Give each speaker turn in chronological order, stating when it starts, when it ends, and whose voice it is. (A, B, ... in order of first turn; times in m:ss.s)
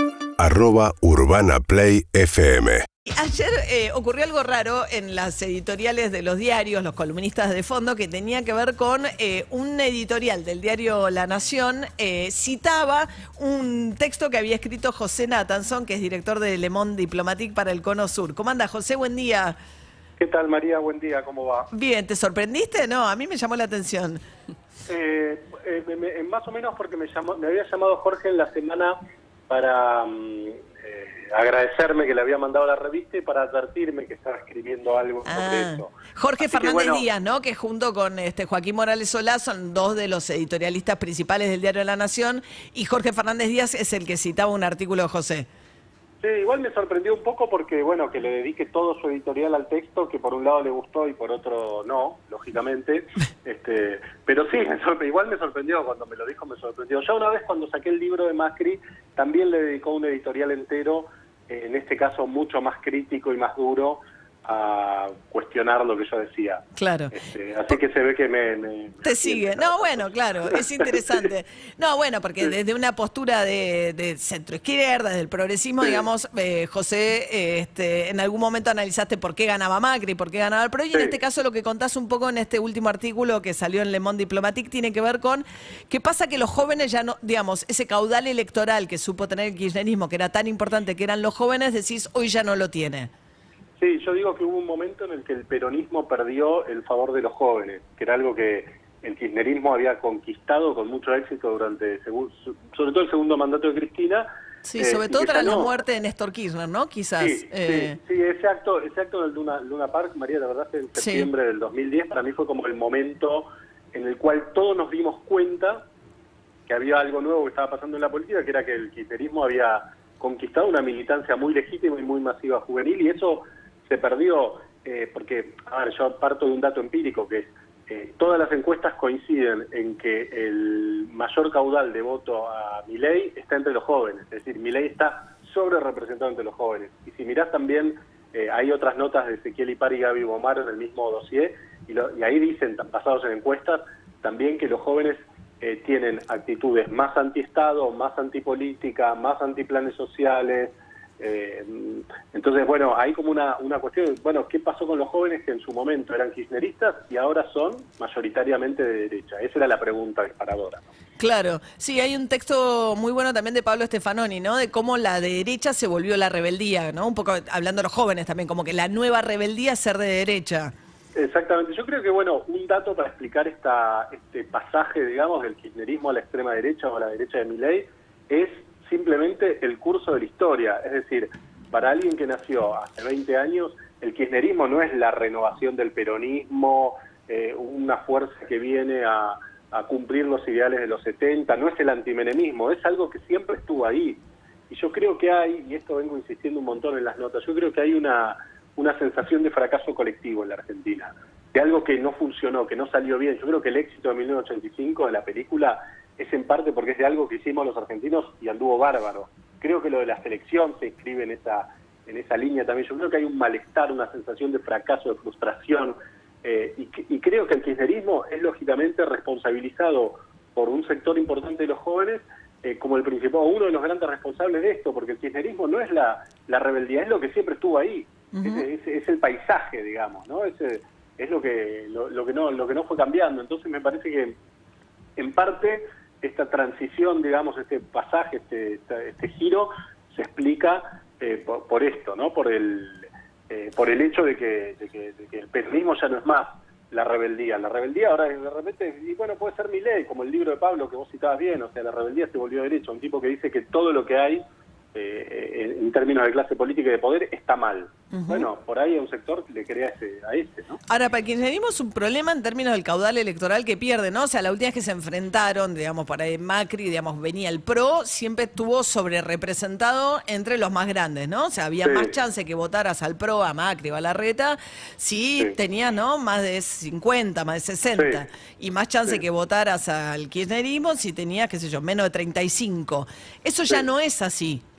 0:00.4-0:02.9 A
0:03.1-0:19.6 B
0:20.2-0:21.7 C
0:21.7-0:24.2 B
0:24.9-0:29.0 C
0:29.5-0:37.0 C
0:35.2-0:45.4 B
0:46.2-1:11.3 C
1:06.8-1:07.1 B
1:09.0-1:33.1 B
1:20.9-1:21.2 C
1:33.8-1:45.7 C
1:44.6-1:48.0 B
1:47.2-1:55.8 C
1:51.0-1:51.3 B
1:56.7-2:40.9 C
2:41.2-2:50.7 B
2:51.1-3:54.4 C
3:48.3-3:48.6 B
3:55.2-4:14.4 C
4:14.9-4:20.8 C
4:18.1-4:18.5 B
4:20.9-4:44.6 B
4:31.8-4:32.2 C
4:37.9-4:38.2 C